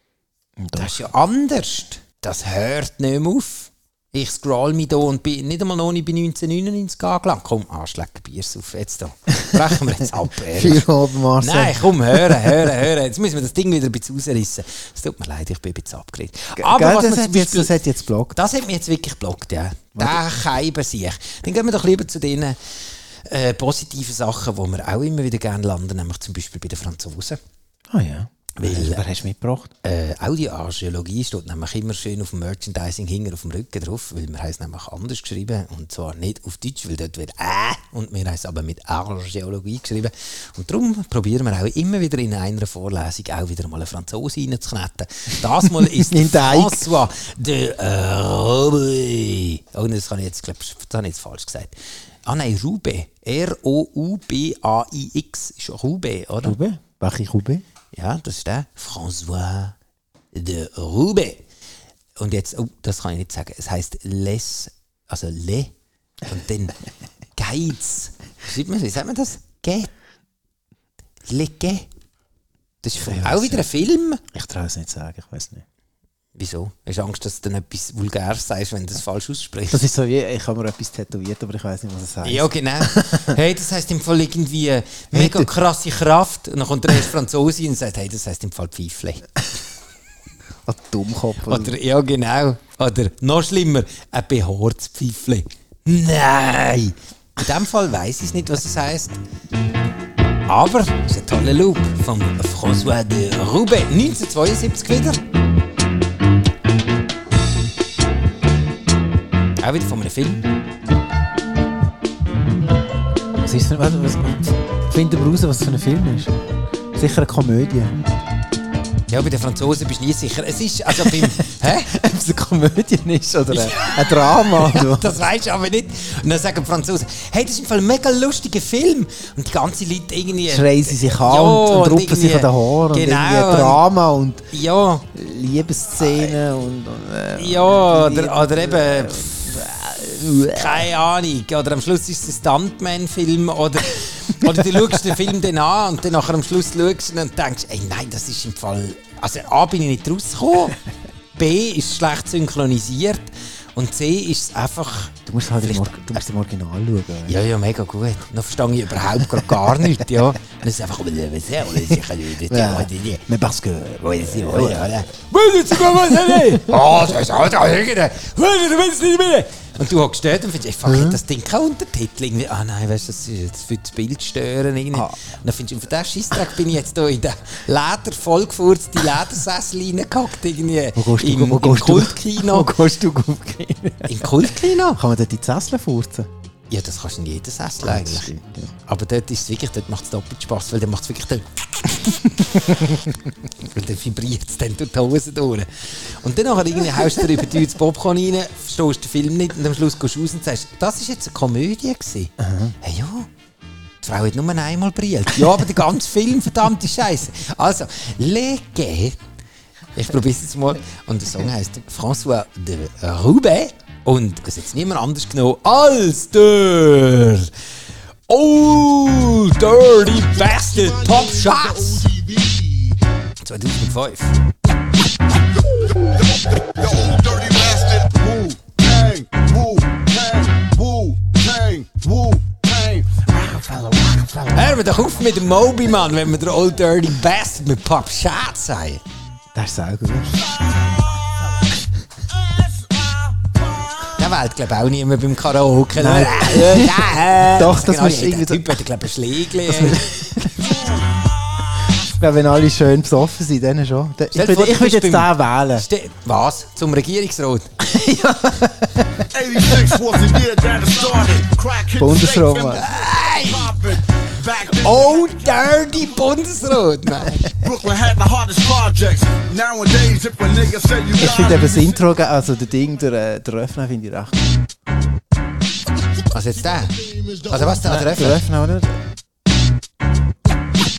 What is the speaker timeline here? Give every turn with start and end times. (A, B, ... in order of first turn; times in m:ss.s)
0:00.6-0:01.0 A
0:00.7-0:17.7 B
0:10.5-0:12.7 A
0:16.6-0:18.3 A
0:18.3-0:22.6 B
0:20.0-0:20.3 A
0:23.2-0:27.4 B
0:27.9-0:29.7 A
0:28.6-0:29.0 B
0:29.8-0:51.7 B
0:45.8-0:47.0 A
0:52.2-0:56.6 B
0:56.4-0:57.6 A
0:57.9-0:59.8 B
1:00.3-1:01.4 B
1:02.2-1:05.7 B
1:06.3-1:06.7 B
1:07.4-1:09.9 B
1:11.3-1:11.9 B
1:12.8-1:14.2 B
1:13.0-1:13.6 A
1:14.3-1:15.6 A
1:16.4-1:19.8 B
1:19.7-1:23.4 A
1:22.2-1:29.2 B
1:25.1-1:25.5 A
1:30.6-1:31.7 A
1:31.5-1:39.2 B
1:40.5-1:45.2 B
1:49.6-1:50.4 B
1:53.4-1:56.4 A
1:56.9-1:58.0 A
1:59.1-2:01.9 B
2:00.9-2:05.2 A
2:03.5-2:13.8 B
2:10.4-2:14.4 A
2:14.5-2:15.1 B
2:15.1-2:20.9 A
2:16.0-2:16.3 B
2:17.4-2:19.6 B
2:20.4-2:30.8 B
2:24.4-2:25.2 A
2:31.4-2:36.2 B
2:35.2-2:37.4 A
2:37.2-2:43.2 B
2:42.5-2:45.0 A
2:44.0-3:02.7 B
2:45.8-2:46.7 A
2:50.8-2:51.2 A
3:01.0-3:06.3 A
3:04.0-3:05.0 B
3:06.7-3:08.3 B
3:07.8-3:08.7 A
3:08.9-3:13.0 B
3:13.6-3:23.3 B
3:22.4-3:22.7 A
3:24.0-3:29.2 B
3:29.9-3:37.5 B
3:38.3-3:42.1 B
3:40.4-3:43.0 C
3:43.4-3:44.4 B
3:45.8-3:54.4 C
3:54.5-3:59.0 B
3:59.5-4:00.4 A
4:04.1-4:10.5 B
4:06.0-4:08.8 A
4:09.6-4:10.7 A
4:12.0-4:15.9 A
4:14.3-4:17.7 B
4:17.8-4:19.3 A
4:19.3-4:26.3 C
4:22.0-4:22.8 A
4:22.7-4:23.8 B
4:24.6-4:27.6 B
4:27.6-4:32.0 C
4:31.2-4:34.6 A
4:36.3-4:38.4 B
4:36.7-4:37.6 C
4:37.8-4:39.0 A